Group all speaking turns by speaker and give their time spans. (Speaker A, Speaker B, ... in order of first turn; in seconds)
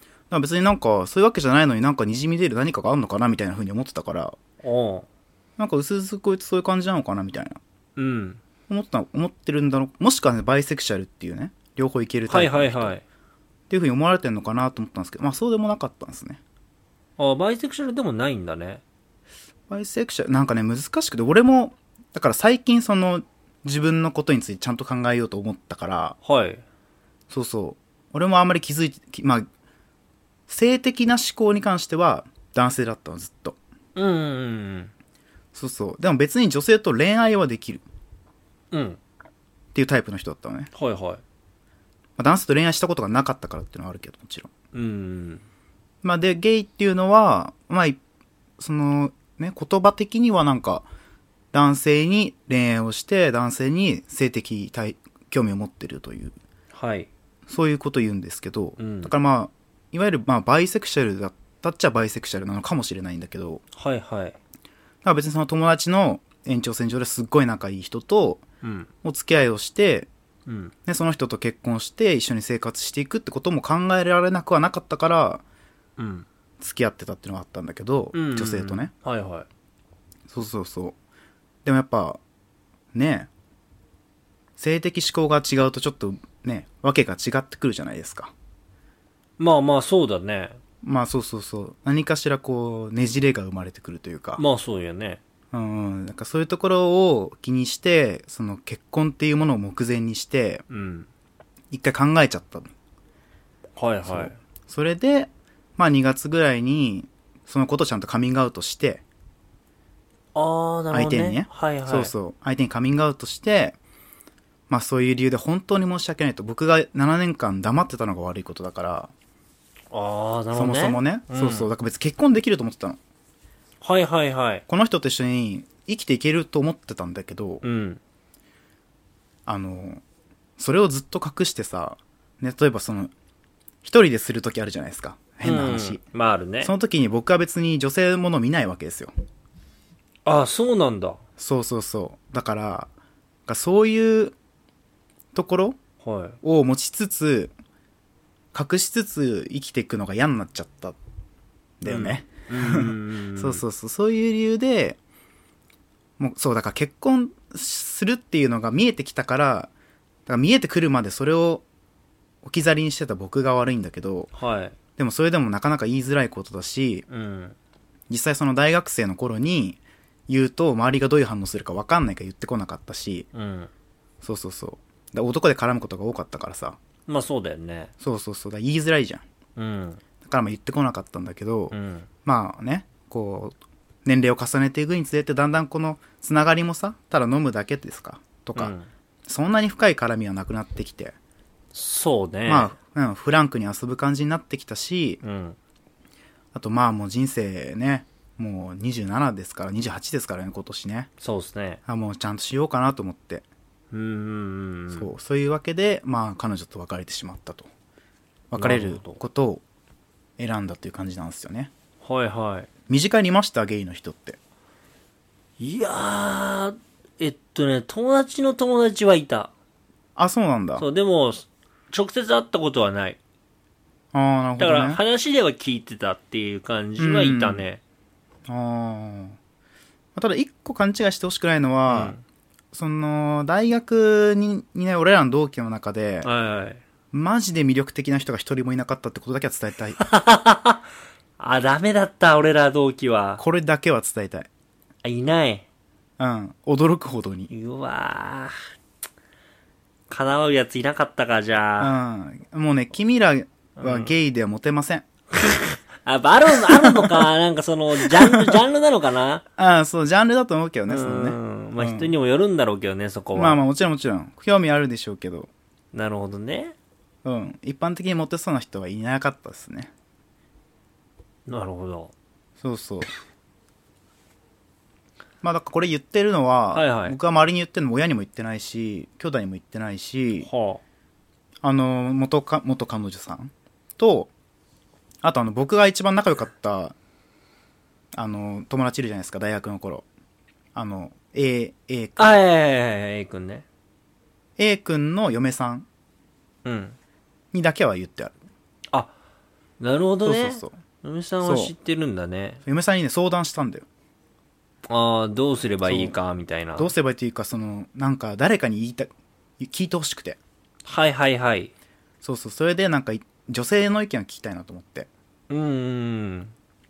Speaker A: 0.3-4.4, 5.6-7.6, 8.7-12.9, 13.7-16.4, 19.7-26.1, 27.3-29.4, 30.5-33.6, 35.5-37.8, 39.7-40.7, 42.2-44.5, 46.0-48.0, 48.6-50.9, 51.5-56.3, 57.5-63.6, 65.0-68.4, 69.0-70.1, 70.8-75.4, 76.6-78.9, 80.3-81.0, 81.6-82.2, 82.9-83.3, 84.6-88.3, 90.8-94.4, 95.5-100.6, 101.7-102.7, 104.0-109.0, 110.9-113.8, 114.7-119.1, 120.5-123.0, 124.7-127.6, 129.5-130.0, 130.6-133.1, 133.8-136.0, 136.6-139.1, 141.4-142.9, 143.5-144.3, 145.3-145.8, 146.4-147.5, 148.5-151.0, 151.8-155.0, 156.2-159.7, 160.3-161.6, 162.4-164.3, 165.0-167.1, 168.1-173.3, 174.2-176.8, 178.0-179.2, 180.2-188.7, 189.2-191.1, 192.5-195.2, 196.5-201.1, 201.9-203.4, 204.9-207.7, 208.5-209.6, 210.4-211.7, 212.9-214.4, 220.2-220.8, 224.1-225.0, 227.0-227.6, 228.5-229.4, 230.2-232.1, 232.7-236.3, 237.1-240.0, 243.4-244.5, 246.2-247.5, 251.8-255.0, 256.7-257.2, 258.0-258.6, 259.6-262.1, 263.3-265.5, 267.2-269.9, 272.6-273.1, 275.4-280.5, 281.6-284.3, 285.2-286.9, 288.1-290.0, 290.7-292.4, 294.6-295.9, 297.5-298.3, 300.2-300.7, 301.4-301.7, 302.6-303.9, 305.8-306.1, 306.8-310.4, 312.2-315.1
Speaker B: 4.6-5.0, 8.0-8.4, 12.3-13.0, 17.2-18.8, 26.2-26.6, 33.9-34.9, 38.7-39.0, 40.7-41.2, 44.7-45.4, 56.7-57.1, 58.8-59.1, 63.7-64.3, 68.6-68.9, 70.5-70.7, 76.0-76.2, 78.1-79.5, 89.4-90.6, 94.4-95.2, 100.7-101.1, 103.8-104.3, 110.3-112.1, 119.9-121.7, 123.8-124.6, 127.6-128.0, 135.4-136.7, 140.2-141.2, 146.0-146.4, 151.8-153.6, 164.3-164.8, 167.1-167.6, 173.3-173.7, 177.1-177.9, 179.6-180.0, 181.7-182.1, 188.5-188.9, 191.7-192.7, 195.2-195.6, 201.2-201.8, 203.9-205.1, 208.5-209.2, 212.0-212.7, 215.6-219.5, 220.8-223.2, 224.6-227.8, 231.9-232.2, 236.2-236.8, 240.0-240.8, 241.4-243.4, 245.0-245.7, 247.5-248.5, 250.1-251.9, 253.8-254.1, 255.3-259.4, 260.9-263.6, 265.9-266.7, 271.5-272.1, 276.7-277.1, 280.4-280.8, 292.2-293.6, 296.6-296.9, 299.8-302.6, 304.9-306.9, 310.9-311.7, 315.5-316.5